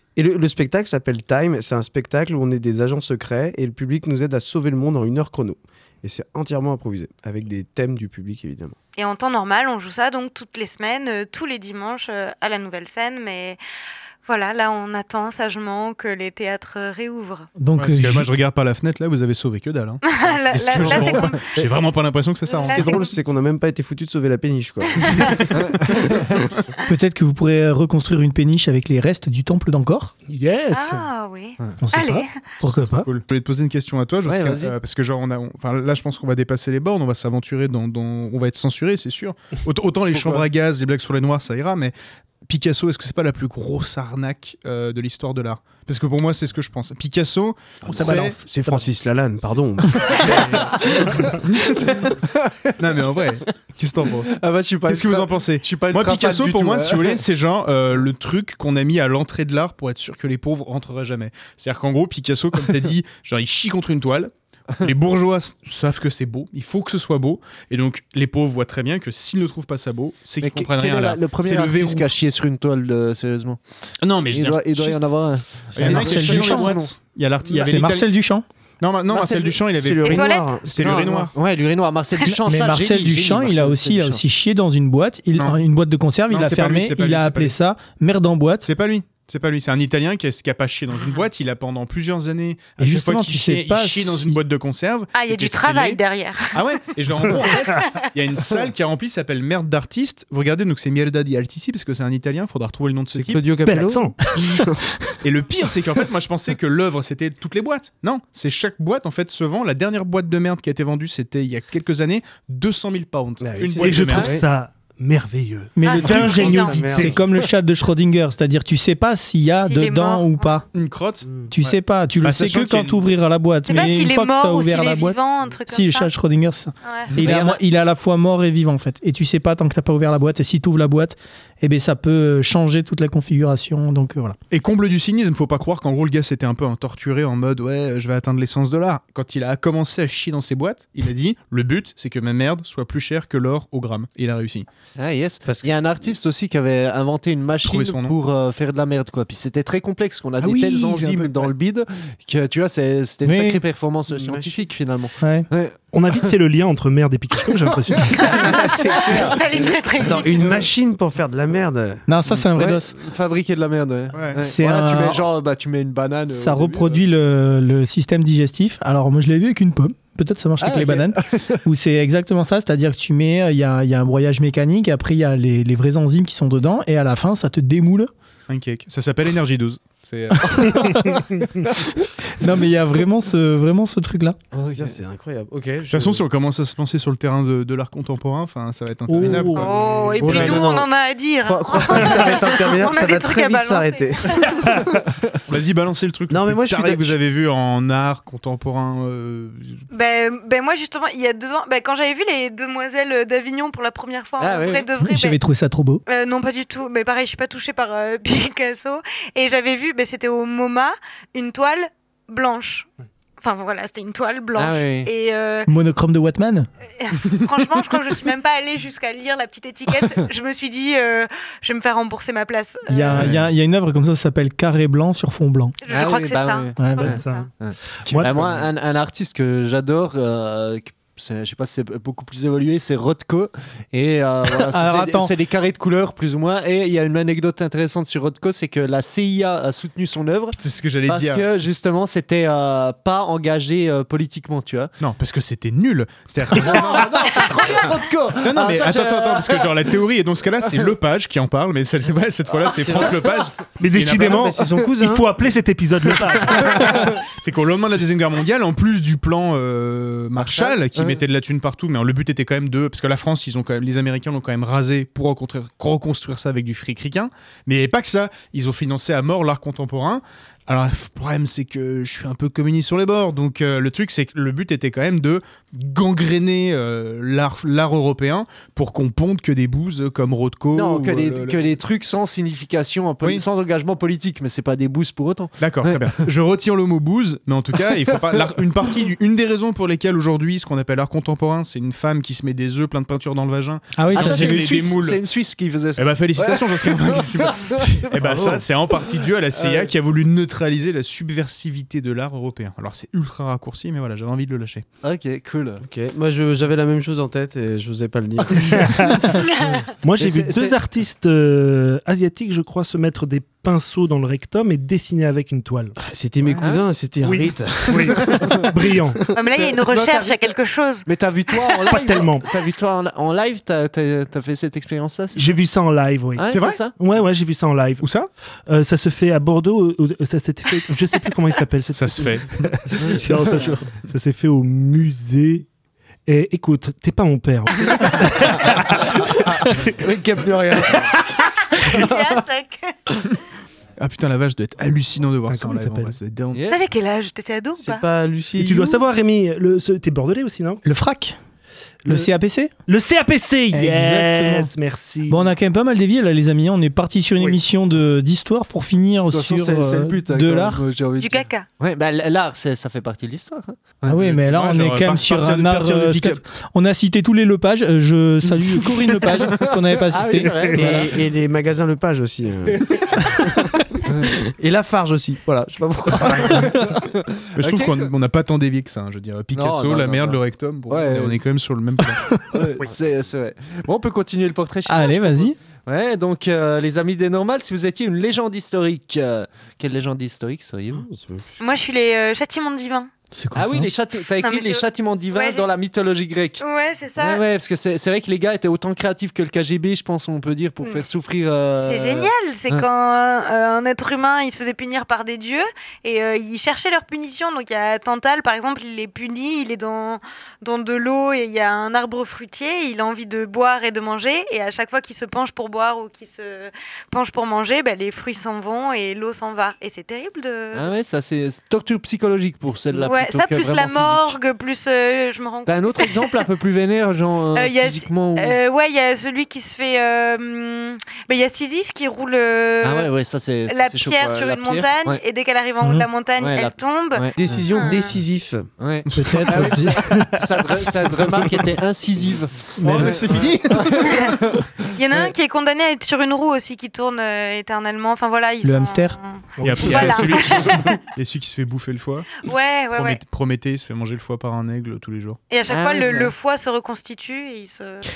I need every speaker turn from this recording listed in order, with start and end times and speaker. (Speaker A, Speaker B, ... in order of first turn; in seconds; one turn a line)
Speaker A: 0.2-8.8
Speaker B: 9.0-13.6
Speaker B: 14.2-17.5
Speaker C: 17.6-18.3
Speaker D: 17.8-23.0
Speaker B: 20.1-21.6
Speaker A: 20.8-21.7
Speaker B: 22.5-23.1
Speaker A: 22.6-26.5
Speaker B: 24.9-25.4
Speaker C: 26.9-30.1
Speaker E: 30.3-31.1
Speaker B: 30.7-32.4
Speaker C: 31.8-33.1
Speaker D: 32.6-41.9
Speaker F: 34.2-34.7
Speaker D: 42.5-48.4
Speaker A: 47.9-52.1
Speaker E: 48.0-48.9
Speaker E: 50.2-51.4
Speaker D: 51.4-52.1
Speaker F: 52.3-52.8
Speaker D: 52.8-72.1
Speaker F: 54.3-57.2
Speaker F: 70.4-73.6
Speaker D: 74.0-75.0
Speaker F: 74.3-76.9
Speaker D: 75.7-78.1
Speaker C: 75.8-76.7
Speaker C: 77.6-78.4
Speaker D: 78.8-81.3
Speaker A: 79.1-81.3
Speaker B: 80.0-80.6
Speaker F: 80.8-84.2
Speaker C: 82.3-88.7
Speaker D: 86.3-87.6
Speaker D: 88.6-96.0
Speaker C: 92.8-94.4
Speaker B: 95.1-96.6
Speaker D: 96.5-103.4
Speaker B: 97.4-98.1
Speaker A: 103.1-104.9
Speaker E: 103.7-104.4
Speaker D: 105.2-114.3
Speaker A: 113.4-114.4
Speaker E: 113.8-117.3
Speaker C: 115.8-120.6
Speaker B: 115.8-116.8
Speaker D: 116.0-116.8
Speaker A: 116.2-117.2
Speaker B: 119.6-120.6
Speaker D: 120.7-123.0
Speaker A: 121.2-121.5
Speaker C: 121.5-134.4
Speaker B: 123.7-126.1
Speaker B: 126.8-127.1
Speaker F: 127.2-127.6
Speaker D: 134.5-144.7
Speaker F: 145.0-156.3
Speaker A: 145.5-146.1
Speaker D: 147.6-148.2
Speaker D: 150.4-151.5
Speaker C: 153.3-153.6
Speaker A: 154.1-154.7
Speaker C: 155.2-155.5
Speaker E: 155.9-158.5
Speaker A: 158.2-162.0
Speaker B: 158.2-160.6
Speaker C: 162.1-162.9
Speaker F: 162.6-167.0
Speaker D: 164.1-164.4
Speaker C: 164.5-165.2
Speaker C: 166.3-178.1
Speaker F: 170.6-171.6
Speaker D: 178.5-180.9
Speaker C: 180.5-181.2
Speaker C: 182.4-184.4
Speaker F: 184.5-184.9
Speaker A: 184.8-186.2
Speaker D: 185.9-189.7
Speaker E: 189.1-189.8
Speaker B: 189.6-194.7
Speaker A: 189.6-190.9
Speaker D: 190.2-190.7
Speaker A: 191.4-194.9
Speaker D: 195.5-199.8
Speaker A: 196.3-197.2
Speaker B: 199.9-205.4
Speaker F: 204.4-204.9
Speaker C: 205.0-206.0
Speaker B: 206.1-212.9
Speaker B: 213.4-215.7
Speaker F: 214.6-215.1
Speaker C: 215.7-216.7
Speaker B: 217.0-223.3
Speaker C: 222.9-225.7
Speaker F: 223.2-223.5
Speaker B: 225.8-227.5
Speaker F: 225.9-244.9
Speaker C: 226.8-227.1
Speaker E: 227.1-227.5
Speaker D: 228.1-228.7
Speaker C: 234.7-235.3
Speaker D: 240.6-241.4
Speaker D: 245.0-247.7
Speaker F: 246.5-249.9
Speaker D: 248.4-254.5
Speaker A: 252.6-253.2
Speaker E: 253.8-257.0
Speaker A: 254.2-255.4
Speaker D: 256.5-281.8
Speaker F: 260.4-261.2
Speaker F: 280.8-286.3
Speaker D: 285.6-295.2
Speaker F: 288.1-288.4
Speaker C: 294.0-294.6
Speaker F: 294.1-298.1
Speaker D: 296.0-304.9
Speaker A: 298.2-298.6
Speaker F: 299.6-299.9
Speaker F: 305.0-305.8
Speaker A: 305.8-309.3
Speaker E: 308.6-309.4
Speaker B: 309.4-309.9
Speaker E: 310.0-315.9
Speaker F: 310.2-310.8
Speaker A: 316.0-318.9
Speaker F: 316.6-316.9
Speaker E: 317.3-319.2
Speaker B: 319.3-321.9
Speaker F: 319.5-325.6
Speaker E: 321.9-322.4
Speaker E: 325.4-328.1
Speaker F: 326.4-326.9
Speaker D: 326.5-326.8
Speaker D: 328.0-328.3
Speaker E: 328.7-335.7
Speaker D: 331.9-332.7
Speaker A: 333.0-333.8
Speaker C: 333.1-333.6
Speaker E: 336.3-339.9
Speaker A: 339.5-341.2
Speaker A: 341.9-342.4
Speaker B: 342.0-342.8
Speaker D: 344.0-346.7
Speaker E: 345.5-346.2
Speaker B: 346.7-348.1
Speaker A: 347.8-349.0
Speaker E: 348.6-350.8
Speaker C: 350.8-351.4
Speaker E: 352.1-352.3
Speaker C: 352.1-352.7
Speaker E: 352.9-355.5
Speaker C: 353.7-354.7
Speaker C: 355.3-360.8
Speaker F: 359.3-364.1
Speaker B: 361.2-361.7
Speaker C: 364.1-371.0
Speaker D: 364.1-366.4
Speaker F: 369.7-371.1
Speaker E: 370.4-370.9
Speaker A: 370.7-376.7
Speaker F: 374.1-374.3
Speaker D: 376.3-376.6
Speaker F: 376.8-378.1
Speaker D: 377.6-382.2
Speaker F: 379.5-381.4
Speaker F: 382.5-391.1
Speaker C: 384.9-385.6
Speaker A: 390.9-391.6
Speaker B: 391.6-393.1
Speaker C: 393.4-393.9
Speaker F: 393.5-396.6
Speaker B: 394.4-395.7
Speaker B: 396.6-397.4
Speaker F: 397.2-402.9
Speaker B: 401.8-420.9
Speaker F: 420.7-424.4
Speaker B: 422.9-426.4
Speaker F: 425.7-428.6
Speaker B: 427.5-433.1
Speaker F: 432.8-435.2
Speaker B: 433.7-438.2
Speaker C: 435.8-436.1
Speaker F: 436.4-437.7
Speaker A: 437.4-438.7
Speaker F: 438.8-444.6
Speaker D: 439.1-440.4
Speaker C: 439.2-440.1
Speaker A: 441.3-441.6
Speaker C: 442.8-443.2
Speaker D: 442.9-444.3
Speaker B: 444.0-444.4
Speaker B: 445.0-450.8
Speaker C: 448.6-449.2
Speaker E: 449.6-450.3
Speaker D: 449.6-452.3
Speaker B: 452.4-453.2
Speaker D: 452.9-455.4
Speaker B: 455.5-458.0
Speaker F: 455.7-456.3